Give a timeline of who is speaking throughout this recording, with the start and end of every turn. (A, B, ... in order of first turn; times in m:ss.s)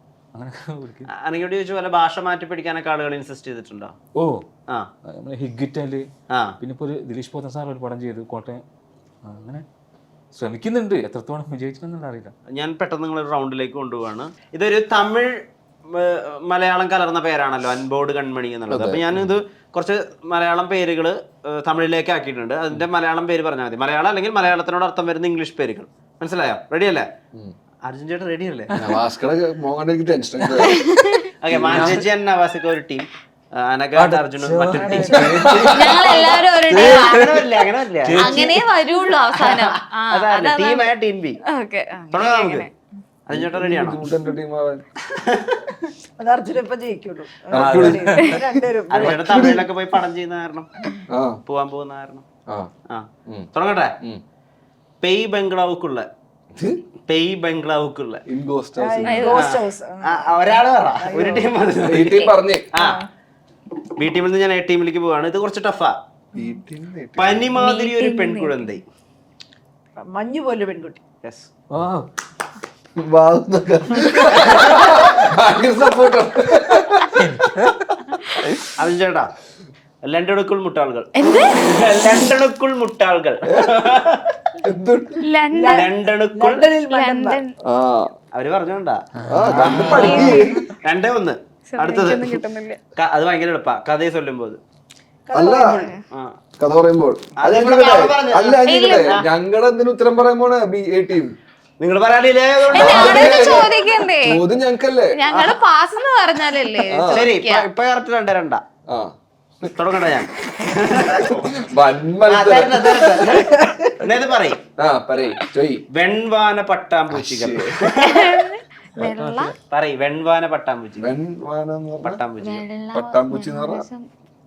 0:00.3-0:01.1 A
0:01.1-0:04.0 B
0:04.2-0:04.4 A
0:05.1-0:06.1 A
0:06.3-0:06.6 B
0:06.6-0:08.6 A
0:09.2-0:09.6 A
0:10.3-0:12.3 A
0:12.5-0:27.1 B
0:18.7-0:19.3 C
0:27.9-0:28.7 B
0:28.8-0:30.8 C
0:30.7-0:31.3 D
0:31.4-0:35.2 B
0:31.5-0:32.0 C
0:31.6-0:32.1 A
0:34.0-0:35.6 A
0:34.8-0:36.4 E
0:35.0-0:37.2 C
0:35.7-0:37.5 D
0:35.8-0:38.5 B
0:38.0-0:38.7 A
0:38.2-0:40.9 D
0:39.3-0:41.4 B
0:41.4-0:42.7 D
0:42.1-0:42.7 B
0:43.3-0:44.0 B
0:43.3-0:44.8 C
0:45.1-0:45.4 B
0:46.2-0:49.6 E
0:47.5-0:49.7 C
0:47.5-0:48.4 A
0:48.9-0:50.7 B
0:51.1-0:51.4 C
0:51.5-0:52.2 B
0:52.9-0:54.0 B
0:55.0-0:56.1 B
0:56.5-0:56.8 C
0:57.1-0:58.2 B
0:58.3-0:59.4 C
0:58.8-1:01.5 E
0:59.0-0:59.5 D
0:59.3-1:03.0 B
1:01.8-1:02.7 C
1:02.8-1:03.1 E
1:04.0-1:06.0 B
1:06.4-1:07.5 C
1:07.2-1:08.8 B
1:07.6-1:08.8 D
1:10.0-1:11.0 E
1:11.2-1:11.5 B
1:11.7-1:12.1 A
1:13.0-1:17.2 C
1:17.2-1:17.9 A
1:18.8-1:19.3 B
1:20.0-1:24.3 B
1:21.2-1:22.1 D
1:23.5-1:23.8 C
1:24.6-1:25.3 C
1:25.2-1:25.9 D
1:25.5-1:27.4 E
1:25.7-1:26.6 B
1:26.9-1:27.5 D
1:27.6-1:28.1 C
1:28.3-1:32.4 B
1:29.2-1:30.2 A
1:29.3-1:30.6 C
1:29.9-1:30.7 D
1:30.1-1:30.6 E
1:31.7-1:32.8 D
1:33.0-1:34.6 B
1:35.3-1:35.9 E
1:35.3-1:35.9 C
1:35.5-1:36.0 D
1:36.6-1:41.3 C
1:37.4-1:39.2 B
1:38.7-1:39.2 D
1:41.8-1:43.4 B
1:42.7-1:45.4 C
1:42.7-1:44.4 D
1:43.0-1:44.1 E
1:45.1-1:47.7 D
1:46.8-1:47.3 C
1:47.1-1:48.6 B
1:48.9-1:49.7 C
1:49.7-1:51.4 B
1:51.1-1:53.3 C
1:52.3-1:54.6 B
1:54.8-1:55.8 C
1:55.9-1:58.4 B
1:57.1-1:57.8 C
1:57.9-1:59.5 D
1:59.0-1:59.6 A
1:59.7-2:01.1 B
2:01.0-2:02.2 C
2:02.0-2:02.6 B
2:02.4-2:04.1 D
2:02.9-2:03.9 C